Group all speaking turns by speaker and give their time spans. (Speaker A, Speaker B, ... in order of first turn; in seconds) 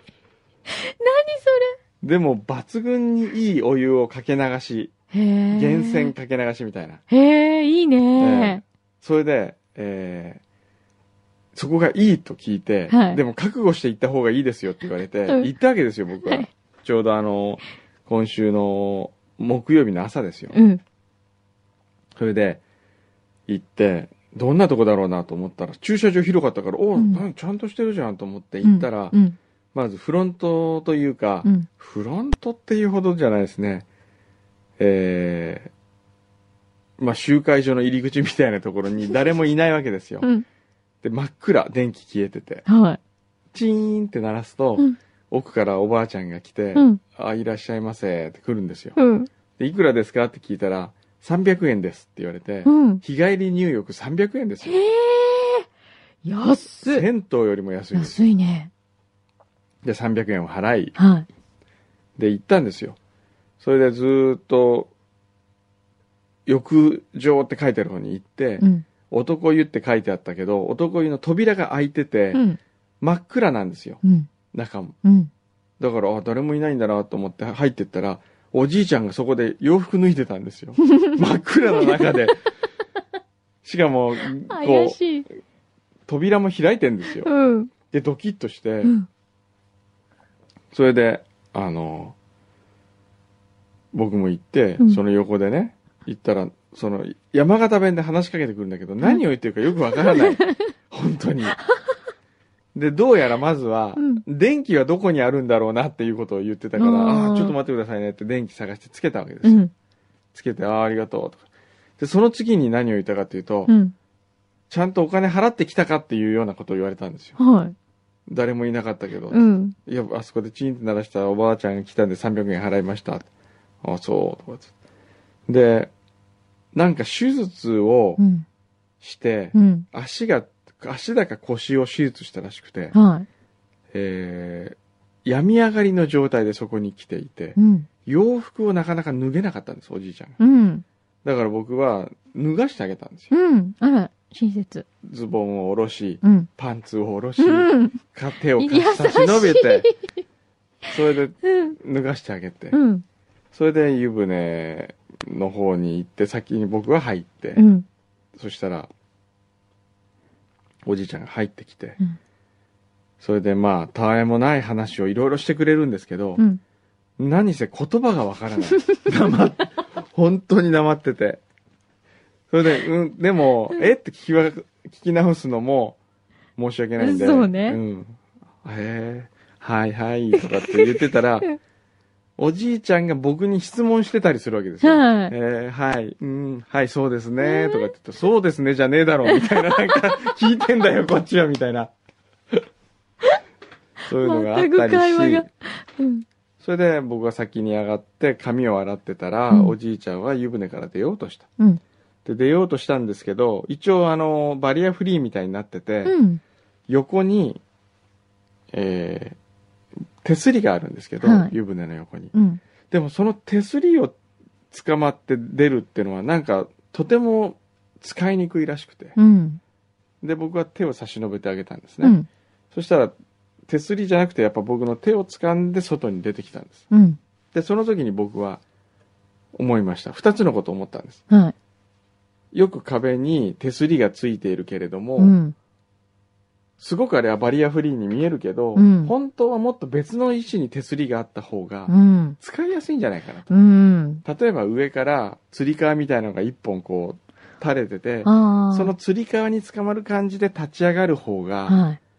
Speaker A: 0.7-1.8, 5.1-6.1, 7.1-8.6, 12.9-13.2, 20.5-20.8, 27.0-27.2, 28.6-29.4, 40.2-40.5, 42.7-43.0, 46.8-47.0, 49.0-49.3, 52.7-53.0, 54.6-55.7, 56.2-57.1, 57.9-58.7, 61.0-61.3, 68.6-68.9, 72.3-72.6, 74.0-74.3, 75.0-75.3, 81.8-82.0, 84.5-85.3, 87.2-87.7, 88.8-89.1, 100.0-100.6, 104.0-104.2, 106.8-107.5, 109.4-109.7, 113.7-114.0, 117.4-117.8, 119.3-119.8, 128.2-128.5, 129.5-129.9, 132.9-133.3, 137.6-137.9, 140.4-140.8, 143.3-144.9, 146.2-146.5, 147.4-148.0, 148.6-150.1, 151.4-151.8, 152.7-153.1, 157.6-157.9, 177.0-177.8, 180.7-181.6, 184.8-185.3, 187.4-187.9, 189.3-190.0, 194.1-196.2, 206.1-206.4, 211.2-211.5, 212.3-212.6, 219.2-219.6, 222.0-222.3, 226.9-227.2, 235.2-235.6, 238.8-239.1, 241.9-242.4, 243.5-244.2, 248.2-248.9, 251.7-252.0
Speaker B: 2.0-4.9, 5.5-7.0, 8.2-10.4, 11.6-20.6, 22.2-22.6, 23.5-29.2, 29.7-33.9, 34.8-35.7, 37.0-40.3, 41.0-42.7, 43.5-49.0, 49.6-54.8, 56.8-58.2, 59.8-61.0, 62.2-63.0, 63.6-64.9, 66.5-72.4, 73.0-74.0, 74.5-75.0, 75.8-82.5, 83.6-85.0, 86.1-87.3, 87.9-88.9, 90.7-92.2, 93.9-101.6, 102.8-109.6, 110.3-111.5, 112.0-113.7, 114.7-117.4, 118.3-123.3, 123.8-124.7, 125.5-125.9, 126.7-128.2, 129.0-133.0, 133.9-140.4, 141.2-143.3, 145.0-149.9, 150.9-152.8, 153.5-157.6, 158.4-158.9, 160.8-162.0, 163.2-166.4, 167.2-171.4, 172.5-176.0, 176.6-181.5, 182.4-191.9, 194.1-195.5, 196.6-201.5, 202.2-206.2, 206.9-207.6, 208.7-209.4, 210.2-212.3, 212.9-214.2, 214.7-219.2, 220.2-222.2, 222.7-223.1, 223.7-226.8, 227.5-228.6, 229.6-231.2, 232.5-235.4, 236.8-243.5, 244.2-251.8